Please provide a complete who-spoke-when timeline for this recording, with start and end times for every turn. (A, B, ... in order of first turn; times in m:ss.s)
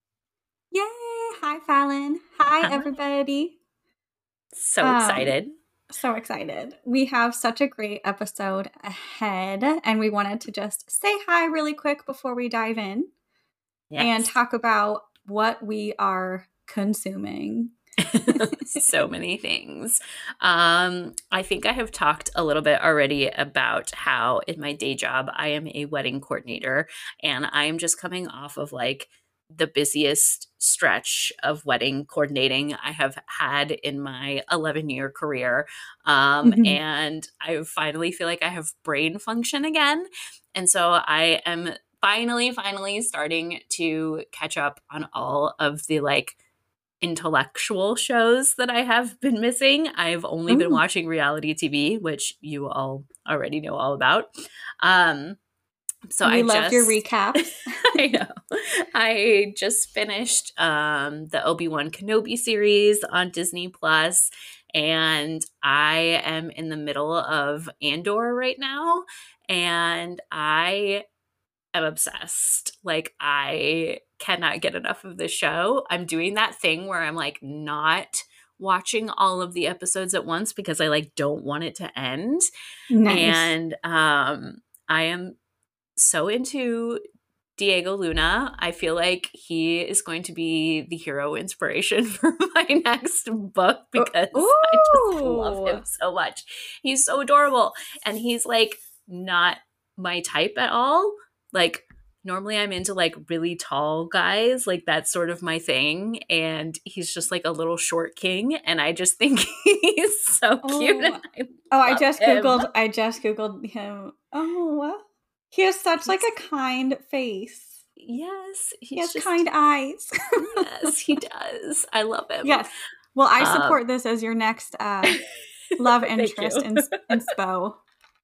0:00.7-0:03.6 A
0:02.6-0:02.9 B
0:04.5-0:05.5 B
0:04.8-0:05.4 A
0:05.9-0:13.1 A
0:13.9-0:14.3 B
0:14.0-0:17.7 A
0:18.1-0:46.4 B
0:18.3-0:18.8 A
0:36.4-0:36.8 A
0:47.0-0:54.3 B
0:50.5-0:50.8 A
0:54.8-0:55.4 B
0:56.1-1:11.0 B
0:56.2-0:58.0 A
1:11.7-1:22.4 B
1:22.9-1:23.5 A
1:23.0-1:25.4 B
1:26.0-1:27.0 B
1:27.6-1:52.6 B
1:34.0-1:35.8 A
1:50.6-1:57.8 A
1:56.0-1:56.3 B
1:58.0-1:59.4 B
1:59.0-2:00.9 A
2:00.6-2:02.7 B
2:02.4-2:05.2 A
2:03.4-2:03.8 B
2:05.8-2:07.8 A
2:06.2-2:07.0 B